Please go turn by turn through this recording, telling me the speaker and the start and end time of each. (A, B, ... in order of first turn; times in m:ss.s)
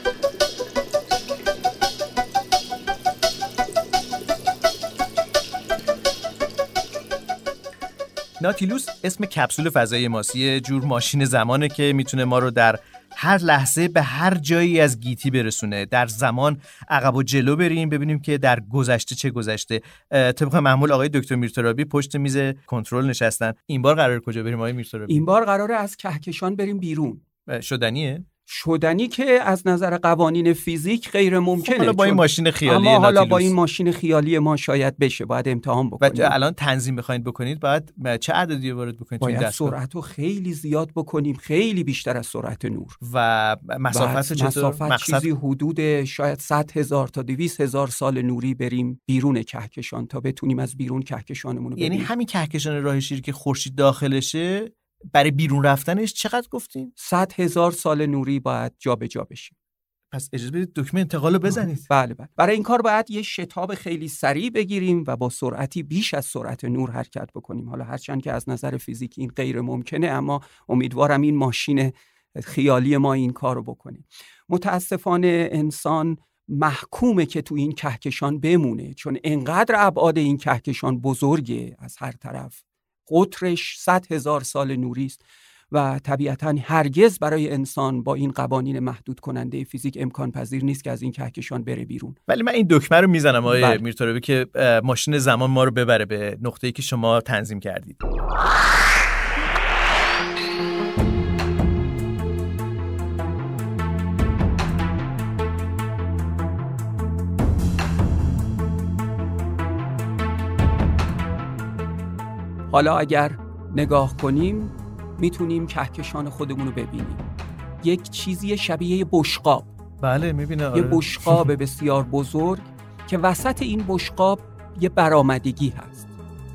0:08.4-0:25.2 A
0:25.1-0:27.2 B
0:27.5-0:28.2 A
0:28.5-0:36.3 B
0:31.6-0:33.5 A
0:36.0-0:39.8 A
0:39.2-0:43.0 B
0:43.0-0:45.3 A
0:43.9-0:52.1 B
0:51.8-0:56.9 A
0:57.0-0:59.5 B
1:00.1-1:01.8 A
1:01.5-1:32.2 B
1:32.3-1:38.0 A
1:33.4-1:33.8 B
1:52.7-1:57.2 B
1:57.8-1:59.7 B
2:00.0-2:01.5 A
2:00.7-2:06.1 B